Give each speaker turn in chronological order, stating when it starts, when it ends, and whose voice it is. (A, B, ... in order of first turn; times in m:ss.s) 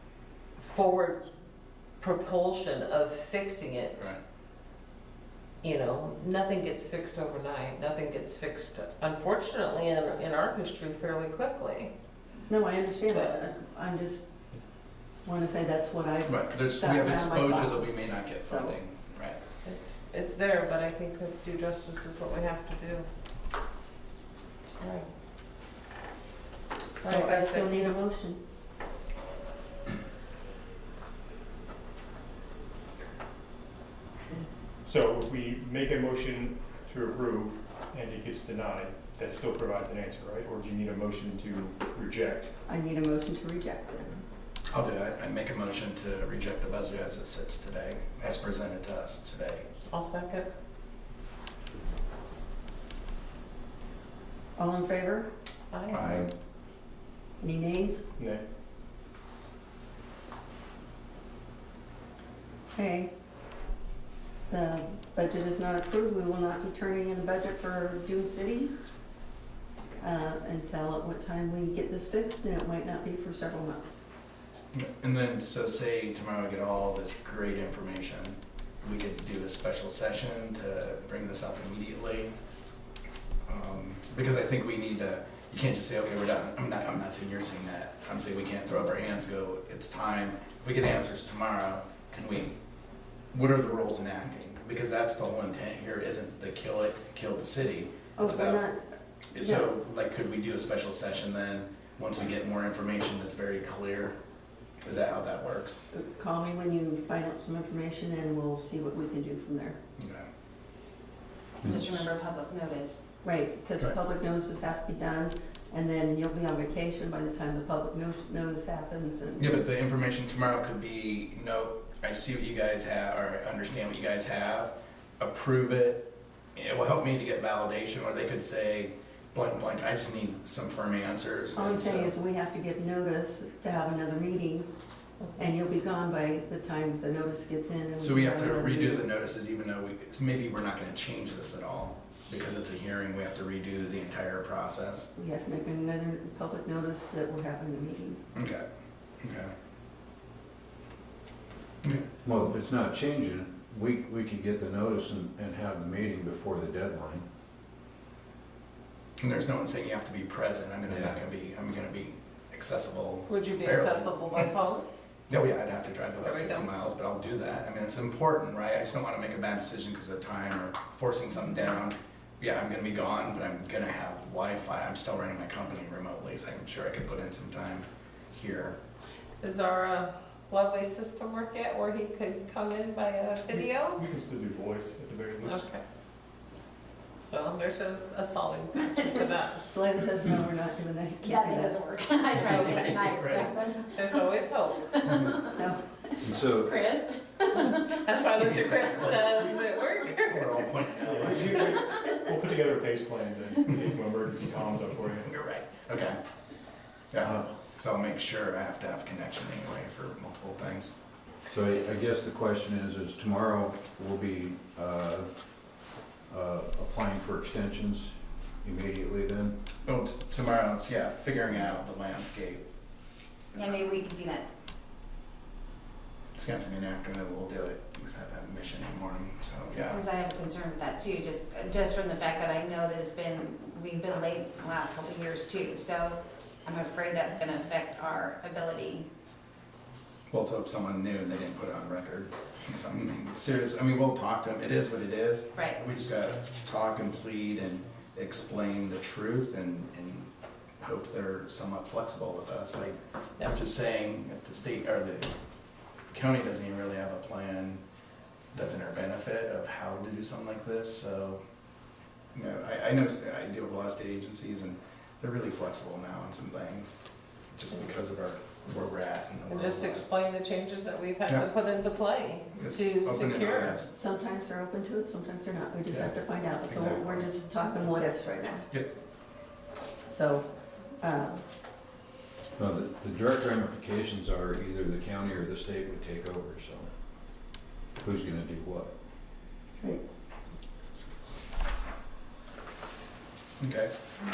0:00.6-0:01.2 A
0:02.0-0:04.2 A
0:05.6-0:11.9 A
0:12.5-0:14.2 B
0:13.1-0:13.4 A
0:15.2-0:18.8 B
0:16.3-0:19.4 C
0:19.6-0:23.1 A
0:24.7-0:25.1 A
0:26.9-0:27.8 A
0:27.0-0:28.4 B
0:34.8-0:42.6 D
0:42.7-0:44.2 B
0:44.7-0:49.7 C
0:49.9-0:50.5 A
0:54.6-0:55.3 B
0:55.7-0:56.3 A
0:55.9-0:56.3 C
0:57.4-0:58.0 B
0:58.2-0:58.4 D
1:02.7-1:03.1 B
1:04.5-1:08.7 B
1:10.0-1:14.0 B
1:14.7-1:22.3 C
1:23.5-1:32.6 C
1:33.3-1:38.6 C
1:38.2-1:38.8 B
1:39.3-1:44.2 C
1:39.4-1:39.7 B
1:44.8-1:45.8 C
1:45.9-1:49.8 B
1:50.0-1:50.3 C
1:51.6-1:53.0 E
1:51.6-1:52.0 F
1:53.2-1:59.7 B
1:59.4-2:12.1 C
2:11.5-2:14.7 B
2:15.4-2:19.1 B
2:18.0-2:25.1 C
2:25.2-2:28.2 B
2:28.4-2:28.6 C
2:29.2-2:29.5 C
2:32.2-2:37.2 F
2:39.2-2:44.5 C
2:40.9-2:41.2 F
2:43.3-2:44.9 A
2:45.3-2:58.8 C
2:46.2-2:46.7 A
2:59.4-3:04.0 A
3:04.0-3:05.7 D
3:05.4-3:05.8 A
3:07.2-3:09.6 A
3:09.2-3:11.8 B
3:11.2-3:14.2 E
3:12.4-3:13.5 C
3:12.6-3:13.0 B
3:13.7-3:14.9 A
3:14.9-3:15.5 E
3:15.4-3:16.2 B
3:16.2-3:16.7 F
3:16.6-3:19.5 E
3:17.5-3:20.6 A
3:18.4-3:19.3 C
3:20.1-3:21.7 C
3:21.0-3:25.3 D
3:21.7-3:22.2 E
3:25.2-3:26.2 C
3:27.1-3:30.9 C
3:31.5-3:35.4 F
3:36.3-3:39.6 F
3:39.9-3:42.6 C
3:43.5-3:44.5 E
3:46.4-3:50.0 C
3:49.7-3:59.1 E
4:00.3-4:10.3 C
4:05.6-4:05.8 E
4:10.8-4:15.3 C
4:16.1-4:17.8 C
4:18.5-4:21.4 C
4:22.4-4:27.0 C
4:27.6-4:30.1 C
4:29.5-4:33.8 A
4:32.5-4:33.9 C
4:33.9-4:38.7 B
4:36.7-4:37.3 C
4:40.1-4:40.5 B
4:41.0-4:41.4 B
4:42.6-4:46.9 F
4:48.0-4:48.9 F
4:53.6-4:53.9 C